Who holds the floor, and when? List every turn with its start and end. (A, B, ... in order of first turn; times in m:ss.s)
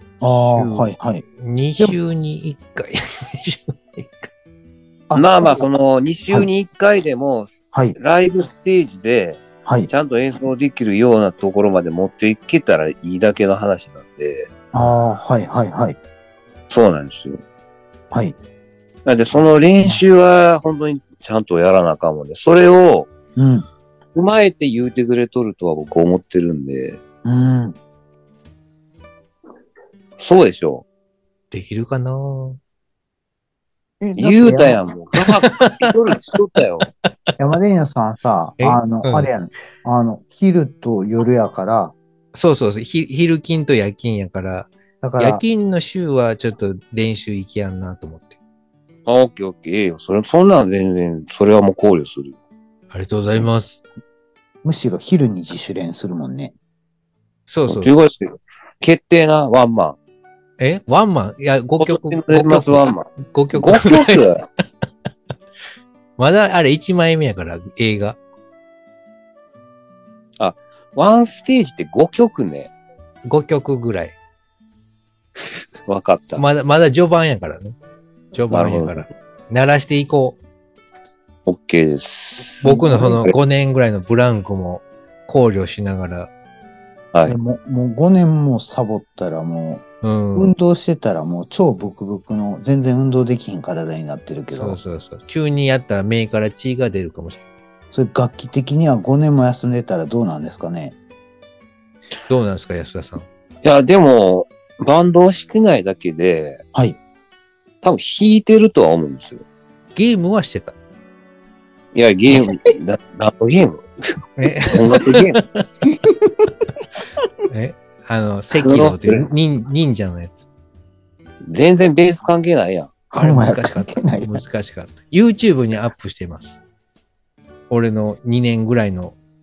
0:00.2-0:01.2 A
0:00.5-0:04.3 B
0:05.1-0:05.7 A
0:05.1-0:14.5 C
0:09.6-0:09.9 A
0:14.7-0:16.0 A
0:16.7-0:17.4 C
0:19.0-0:23.1 C
0:23.4-0:23.6 A
0:24.1-0:27.0 C
0:27.2-0:27.8 A
0:30.2-0:30.8 C
0:31.5-0:32.6 B
0:34.0-0:34.8 A
0:34.2-0:36.9 C
0:35.2-0:35.9 B
0:37.4-0:41.9 A
0:38.6-0:39.3 B
0:42.3-0:48.4 B
0:45.0-0:45.4 A
0:49.0-0:52.3 C
0:52.9-0:53.8 B
0:54.6-0:56.5 A
0:57.5-0:57.9 B
0:57.7-1:00.0 C
1:00.6-1:04.2 B
1:01.8-1:04.4 C
1:06.2-1:08.2 B
1:10.4-1:12.7 C
1:13.2-1:14.2 B
1:15.8-1:16.4 C
1:16.4-1:17.8 B
1:18.3-1:20.4 B
1:18.5-1:19.0 C
1:21.4-1:22.6 C
1:22.6-1:23.2 A
1:22.6-1:26.3 B
1:27.2-1:34.8 A
1:30.0-1:30.5 B
1:34.5-1:37.4 B
1:37.9-1:41.0 A
1:42.3-1:43.2 B
1:43.6-1:46.6 C
1:47.8-1:49.4 C
1:50.0-1:50.7 B
1:51.9-1:55.4 C
1:54.4-1:55.6 B
1:55.8-1:56.2 A
1:57.5-2:00.4 B
1:58.6-1:59.3 C
2:01.5-2:02.9 C
2:03.1-2:04.4 A
2:03.2-2:06.6 B
2:07.7-2:09.2 B